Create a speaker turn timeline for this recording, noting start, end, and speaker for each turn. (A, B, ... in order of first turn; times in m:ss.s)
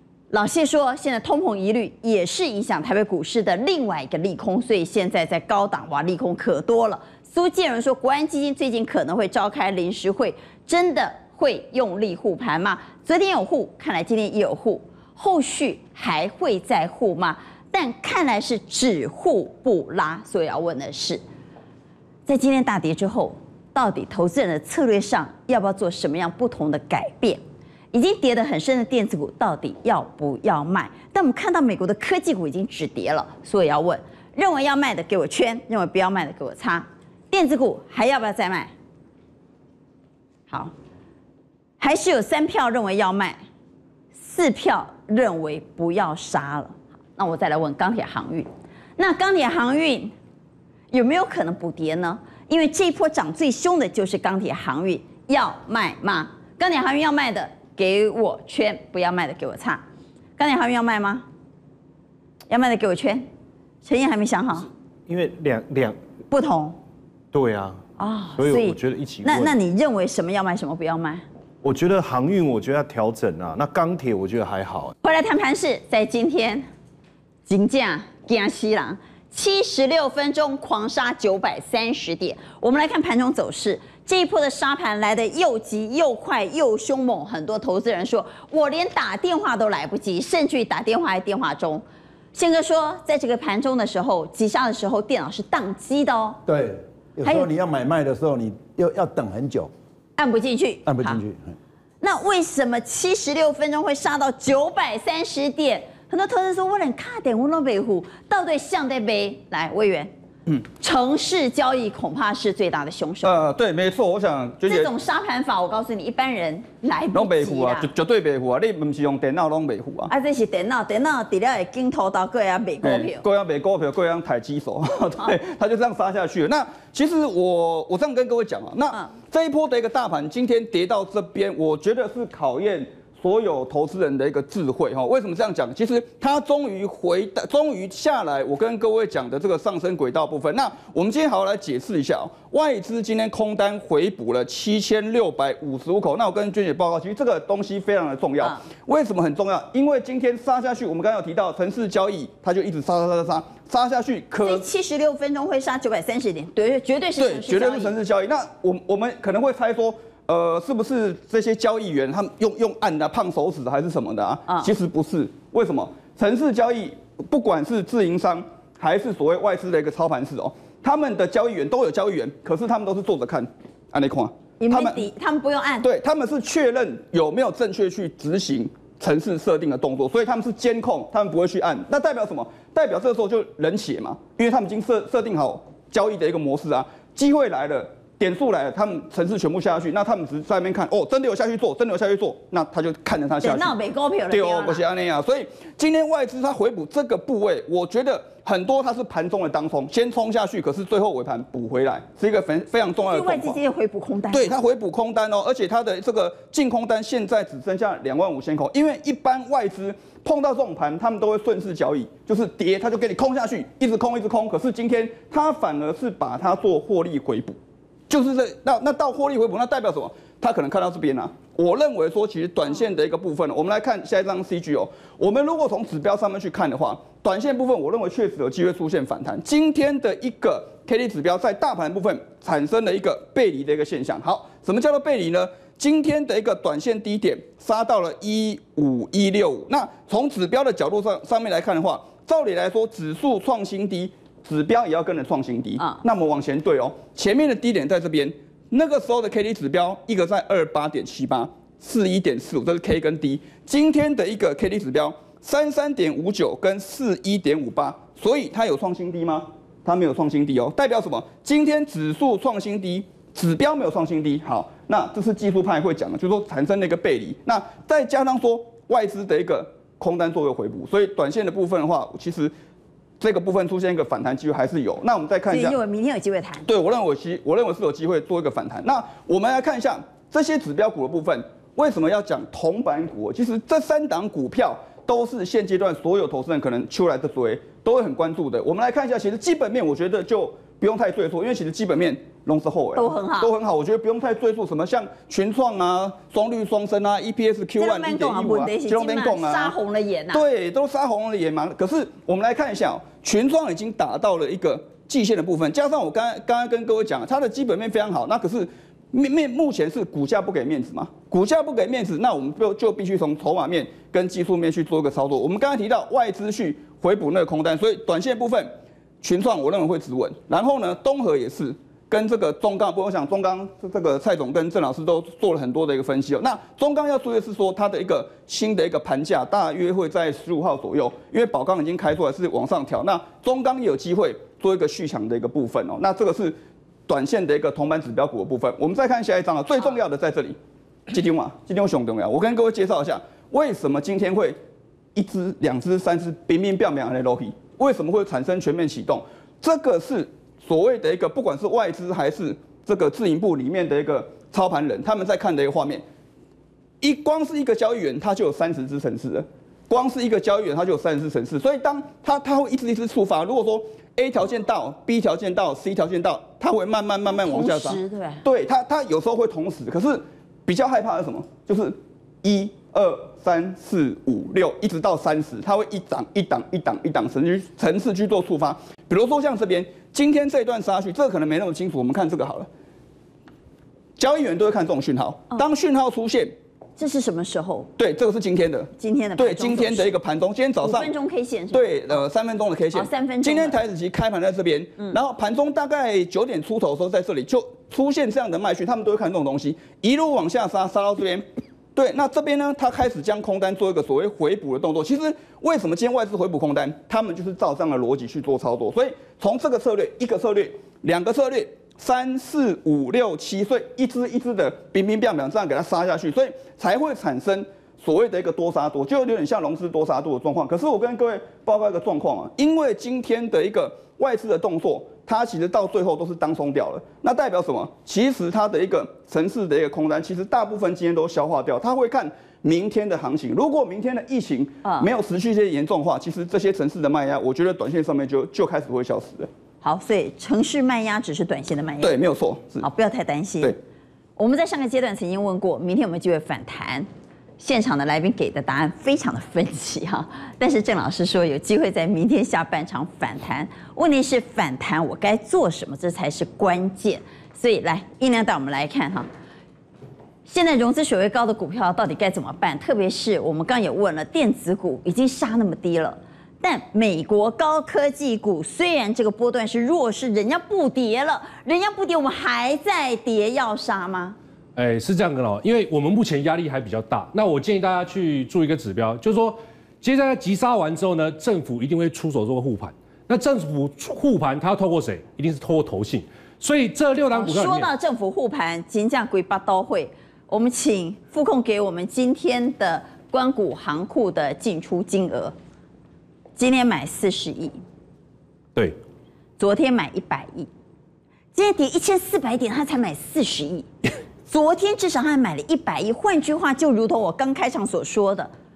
0:00.3-0:21.2 A
0:22.3-0:38.7 A
0:41.8-0:43.4 A
0:44.1-0:50.1 A
0:50.9-0:59.8 A
1:00.4-1:01.2 A
1:02.5-1:03.3 A
1:03.8-1:04.7 A
1:05.1-1:06.0 B
1:06.3-1:06.8 A
1:07.3-1:07.8 B
1:08.0-1:11.2 A
1:08.4-1:09.5 B
1:11.6-1:14.9 B
1:15.0-1:16.7 A
1:17.4-1:36.4 A
1:36.5-1:39.7 C
1:40.2-1:41.2 A
1:40.8-1:41.5 C
1:42.0-1:50.1 A
1:50.8-1:53.3 A
1:53.2-1:54.9 D
1:54.6-1:57.9 A
1:57.1-2:00.1 D
2:00.1-2:03.2 A
2:02.8-2:34.6 D
2:34.4-2:38.0 A
2:37.2-2:55.1 D
2:54.6-2:55.9 A
2:55.8-3:13.8 D
3:13.4-3:14.8 A
3:14.3-3:23.6 D
3:23.1-3:24.6 A
3:24.3-3:37.6 D
3:38.1-4:32.5 D
4:33.2-4:35.8 D
4:35.5-4:36.7 A
4:36.6-4:59.8 D
4:52.9-4:53.5 A
4:57.8-5:00.4 A
5:00.3-5:36.5 D
5:37.1-5:40.6 D
5:41.1-5:44.6 D
5:45.1-5:56.0 D
5:57.0-6:22.7 D
6:07.3-6:08.4 A
6:24.2-6:26.5 D
6:27.0-6:27.9 A
6:28.0-6:31.1 D
6:29.0-6:30.1 A
6:30.8-6:32.2 A
6:31.7-7:19.5 D
6:32.9-6:33.8 A
7:14.8-7:15.1 A
7:19.8-7:22.1 A
7:22.0-7:22.8 D
7:22.8-7:23.8 A
7:24.4-7:27.1 A
7:27.6-7:39.3 A
7:40.4-7:54.4 A
7:54.8-8:07.9 E
8:07.3-8:15.5 A
8:16.6-8:17.8 A
8:19.6-8:20.7 A
8:21.5-8:23.9 A
8:24.5-8:28.5 A